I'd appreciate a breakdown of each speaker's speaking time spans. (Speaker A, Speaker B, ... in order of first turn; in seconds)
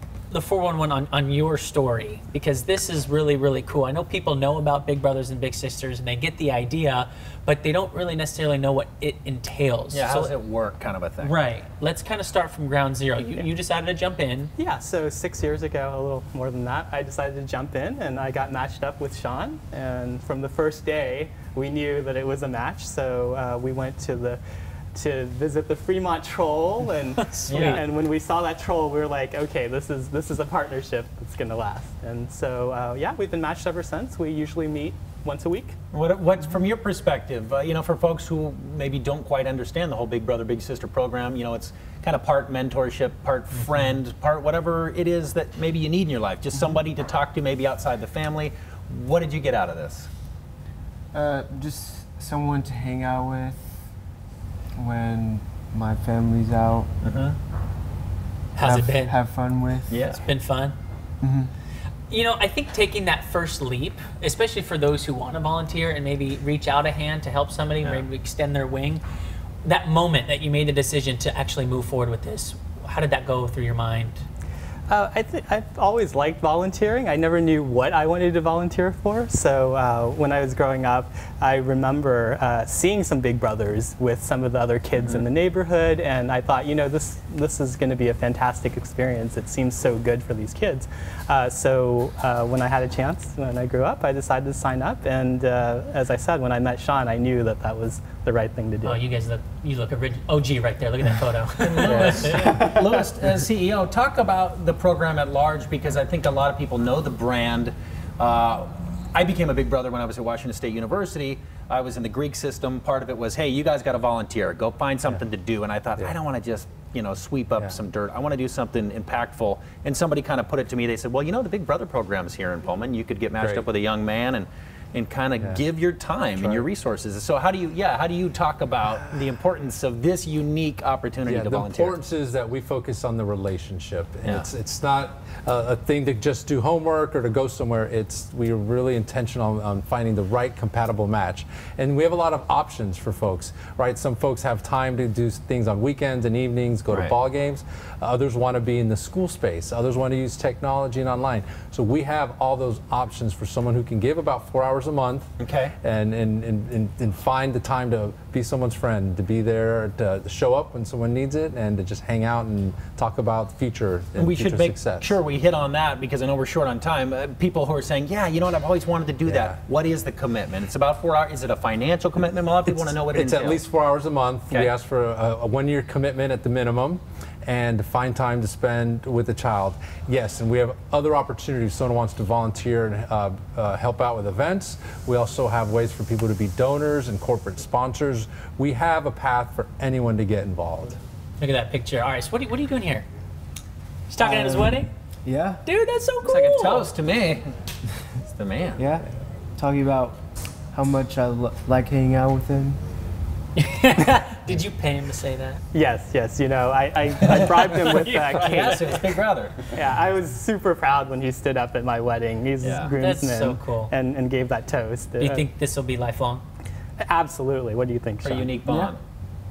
Speaker A: 0.3-10.3, 11.2-14.5, 27.2-27.8, 58.5-59.1, 60.0-60.7, 62.1-69.0, 69.6-74.2, 98.8-102.6, 191.4-193.1, 194.1-194.9, 195.6-196.8, 203.6-205.6, 207.8-208.8, 213.0-213.9, 215.2-216.4
Speaker B: 9.9-11.3, 27.5-27.8, 35.9-50.1, 57.0-57.4, 59.9-60.2, 101.6-132.0, 146.9-147.2, 155.4-155.7, 164.2-173.6, 196.2-197.5, 198.2-198.8, 207.3-209.6, 212.6-212.9, 218.2-219.0
Speaker C: 14.6-24.4, 24.9-35.8, 74.9-99.0, 205.7-209.1, 209.7-215.4, 217.0-218.6
Speaker D: 51.1-53.8, 54.8-56.9, 58.6-60.0, 61.2-61.5, 194.2-195.6, 198.8-202.8, 218.6-218.9
Speaker E: 123.4-123.6, 126.3-126.7, 131.2-165.2, 169.2-169.6, 172.7-191.0